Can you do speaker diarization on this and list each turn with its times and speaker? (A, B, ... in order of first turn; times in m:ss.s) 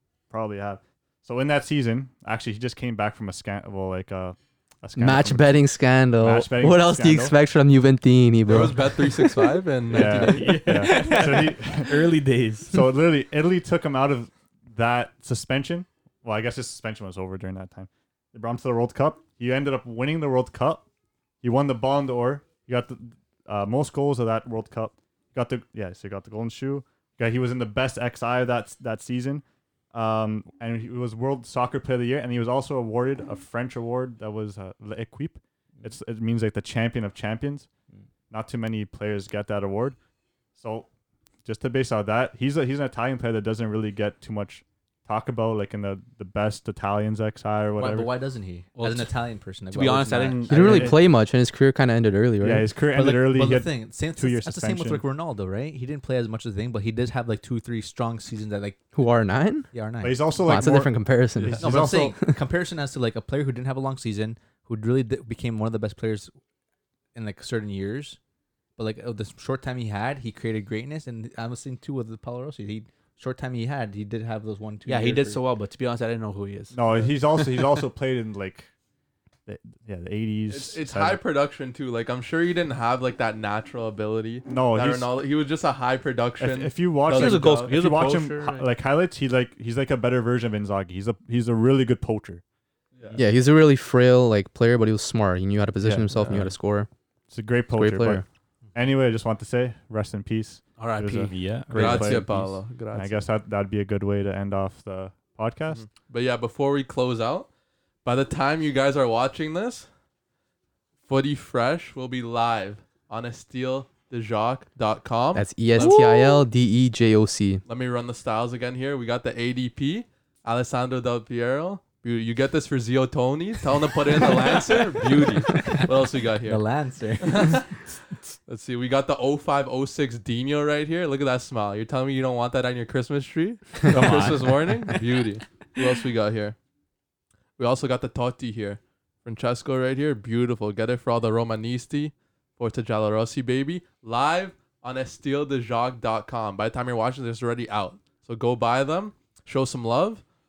0:00.3-0:07.3 A
0:05.0-0:09.4 B
0:08.4-0:11.0 C
0:09.9-0:12.1 A
0:09.9-0:12.8 D
0:12.7-0:20.8 A
0:21.4-0:37.7 A
0:38.3-0:40.0 A
0:40.6-0:40.9 A
0:41.4-0:48.1 A
0:47.8-0:50.6 E
0:48.8-0:49.1 F
0:49.7-0:50.9 F
0:50.5-0:52.7 B
0:50.5-0:51.0 A
0:52.4-0:55.0 A
0:52.9-0:58.8 E
0:58.9-0:59.7 B
0:59.7-1:00.2 E
1:00.0-1:02.2 A
1:00.4-1:02.3 B
1:01.6-1:06.3 E
1:07.1-1:08.2 E
1:08.8-1:15.4 E
1:14.8-1:17.7 F
1:16.7-1:18.7 A
1:19.4-1:21.2 A
1:20.5-1:27.8 C
1:24.5-1:25.1 A
1:26.4-1:32.4 A
1:27.1-1:28.7 F
1:33.1-1:36.9 B
1:35.8-1:36.5 A
1:37.3-1:45.9 A
1:37.7-1:38.2 B
1:40.8-1:41.3 F
1:41.3-1:42.5 D
1:41.7-1:43.2 C
1:45.7-1:47.5 C
1:48.0-1:49.9 C
1:51.0-1:56.4 C
1:55.3-1:57.6 B
1:57.6-2:06.6 C
2:05.6-2:05.8 E
2:06.4-2:07.7 E
2:07.2-2:07.6 C
2:08.3-2:16.6 C
2:13.9-2:14.6 D
2:17.6-2:30.2 C